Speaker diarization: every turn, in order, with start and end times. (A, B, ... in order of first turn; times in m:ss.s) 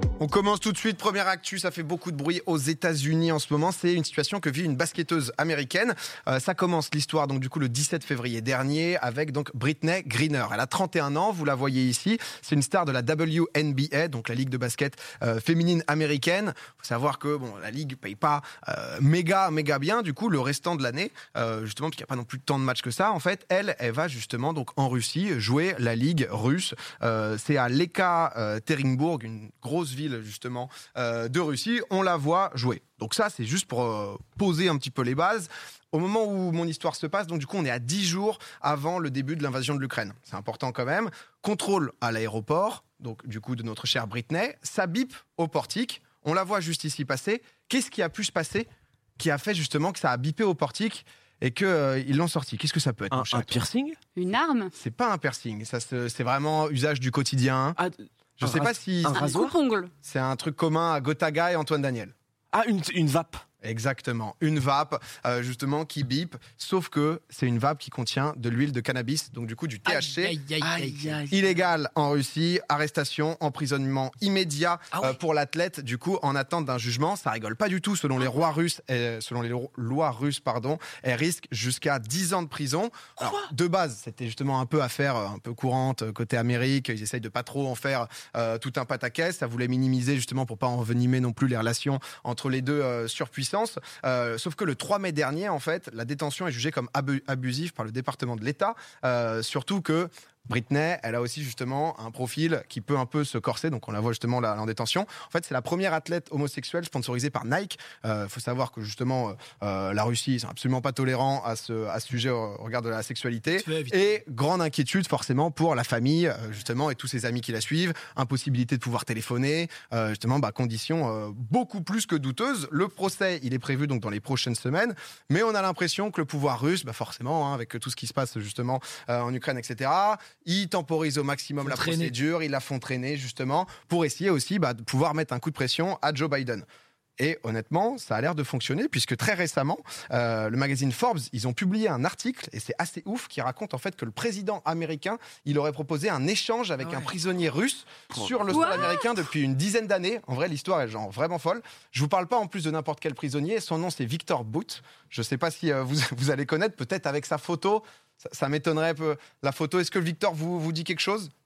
0:00.2-0:48.7 A
0:49.2-0:53.6 A
0:53.1-0:54.0 B
0:54.2-0:54.7 C
0:54.8-0:57.8 A
0:57.8-0:59.6 B
0:58.4-0:59.3 A
0:59.1-0:59.9 C
1:00.0-1:02.1 A
1:02.5-1:03.4 B
1:03.6-1:10.4 A
1:09.8-1:11.2 D
1:10.6-1:11.5 B
1:11.3-2:16.6 A
1:14.9-1:15.2 D
1:23.2-1:23.5 D
1:53.6-1:54.0 D
2:11.6-2:12.1 D
2:17.2-2:41.3 A
2:26.8-2:27.1 D
2:28.1-2:28.7 B
2:28.5-2:29.0 C